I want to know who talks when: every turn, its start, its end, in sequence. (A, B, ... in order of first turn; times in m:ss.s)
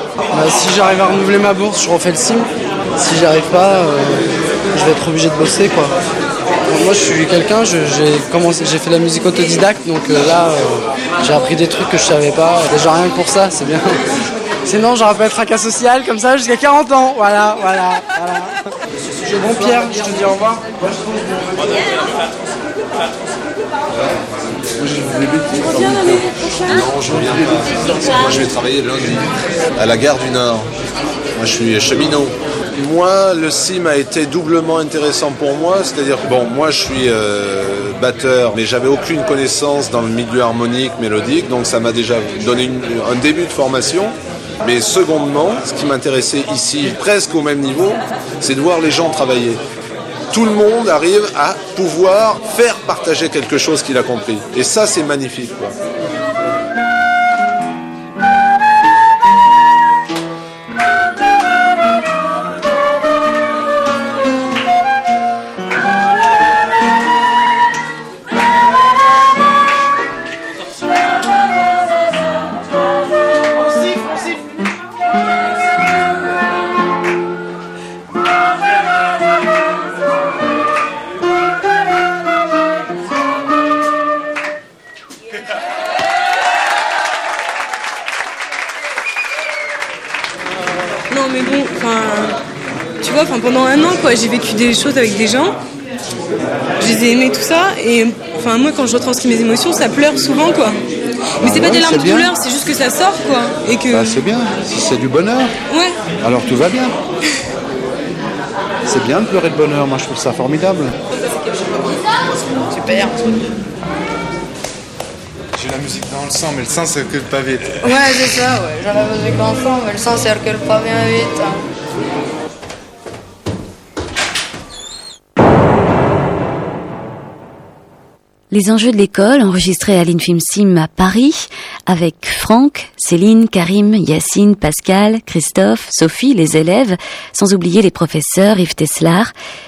0:00.3-0:05.9 A
0:06.7-0:14.0 A
0:14.6-0:18.6 A
0:19.2-0:20.6 A
0:24.8-0:26.3 B
0:26.7-0:30.7 C
0:31.4-0:49.6 C
0:50.3-0:55.8 C
1:31.1-1:32.4 D
1:33.0-1:35.6 D
1:36.8-1:40.8 D
1:41.4-1:42.3 B
1:41.5-1:44.2 D
1:43.9-1:45.5 B
1:45.7-1:46.0 D
1:46.2-1:47.0 B
1:48.9-1:50.9 B
1:52.6-1:53.5 E
1:55.6-1:57.7 F
1:57.8-2:01.6 E
2:08.5-2:19.3 G